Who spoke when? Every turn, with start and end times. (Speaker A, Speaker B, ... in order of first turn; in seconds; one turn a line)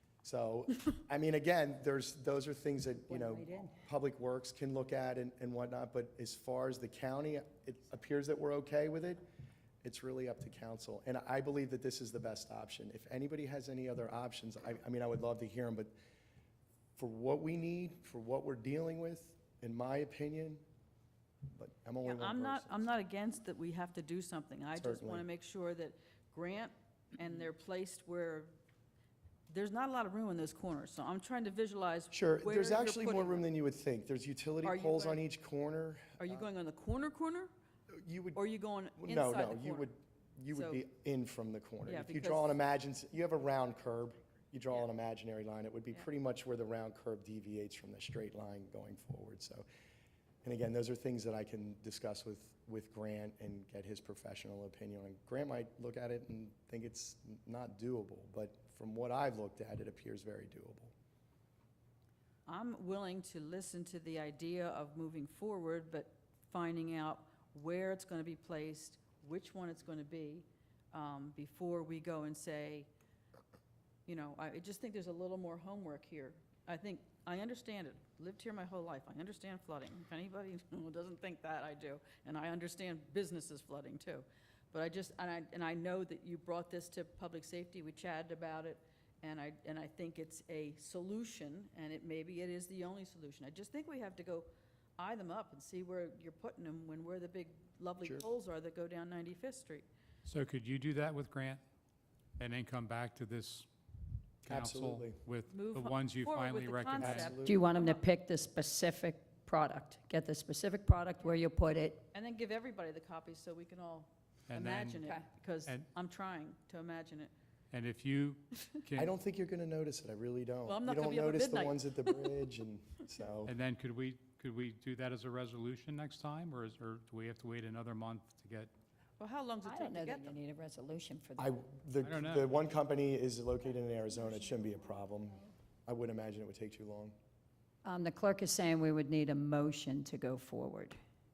Speaker A: 0.2-9.2
Speaker B: 3.1-3.7
Speaker A: 9.8-15.9
Speaker A: 17.0-20.6
Speaker A: 21.5-22.8
Speaker C: 22.0-28.5
Speaker A: 24.8-25.2
Speaker C: 29.5-33.5
Speaker A: 32.1-36.4
Speaker C: 34.6-35.2
Speaker C: 36.2-37.5
Speaker A: 37.9-38.4
Speaker C: 38.3-39.9
Speaker A: 39.0-49.6
Speaker C: 40.5-40.8
Speaker C: 41.9-42.5
Speaker A: 50.4-60.9
Speaker C: 62.5-72.9
Speaker C: 74.0-99.9
Speaker D: 100.2-101.6
Speaker D: 102.4-103.7
Speaker A: 104.4-105.2
Speaker D: 104.5-107.4
Speaker C: 105.5-108.0
Speaker A: 106.9-107.6
Speaker B: 107.4-112.0
Speaker C: 112.1-117.3
Speaker D: 114.5-115.0
Speaker D: 115.6-115.9
Speaker D: 117.7-119.1
Speaker A: 119.0-123.5
Speaker C: 120.6-122.2
Speaker D: 123.4-128.7
Speaker C: 129.2-130.4
Speaker B: 129.6-131.5
Speaker A: 131.4-137.1
Speaker D: 132.0-132.5
Speaker B: 137.8-141.0